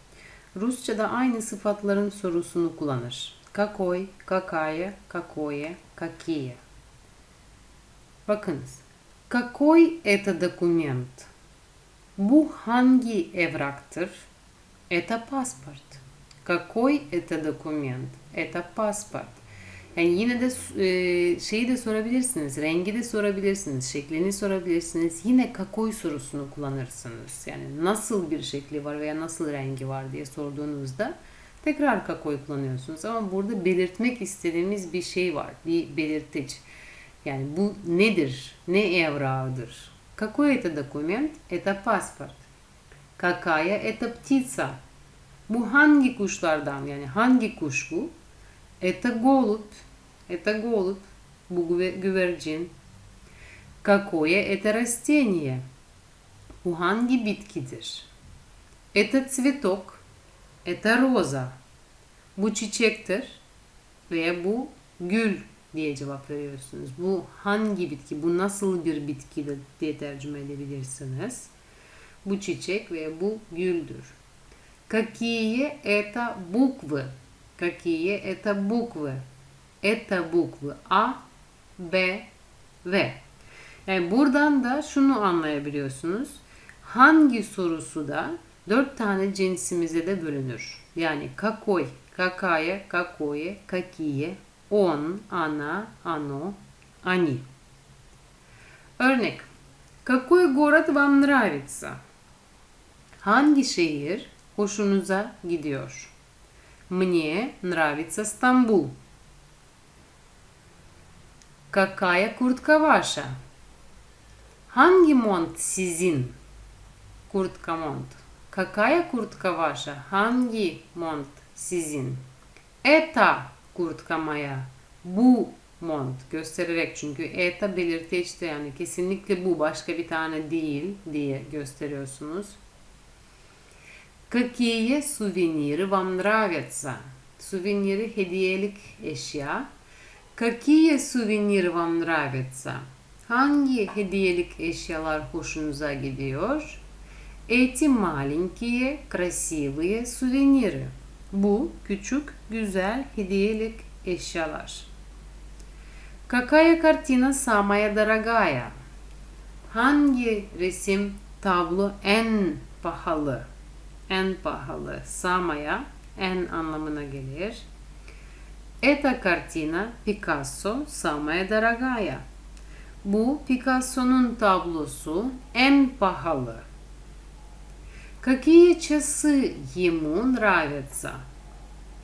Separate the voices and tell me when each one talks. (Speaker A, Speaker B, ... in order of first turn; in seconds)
Speaker A: 0.5-6.6, 8.3-11.3, 12.2-14.3, 14.9-19.4, 19.9-36.6, 37.2-42.5, 43.2-44.8, 45.5-48.1, 48.8-52.7, 53.8-55.6, 56.6-58.1, 58.9-60.0, 60.6-61.6, 62.4-63.4, 64.1-71.5, 72.2-74.2, 74.9-79.2, 79.8-81.2, 81.8-82.3, 82.8-83.2, 83.8-97.4, 99.0-99.5, 100.0-102.0, 103.2-106.1, 106.9-108.9, 111.7-113.3, 114.7-116.3, 117.3-122.2, 122.8-132.6, 134.3-139.7, 140.3-146.8, 147.5-154.9, 156.3-158.7, 159.7-163.4, 164.1-167.7, 168.8-172.2, 173.0-176.7, 178.2-181.2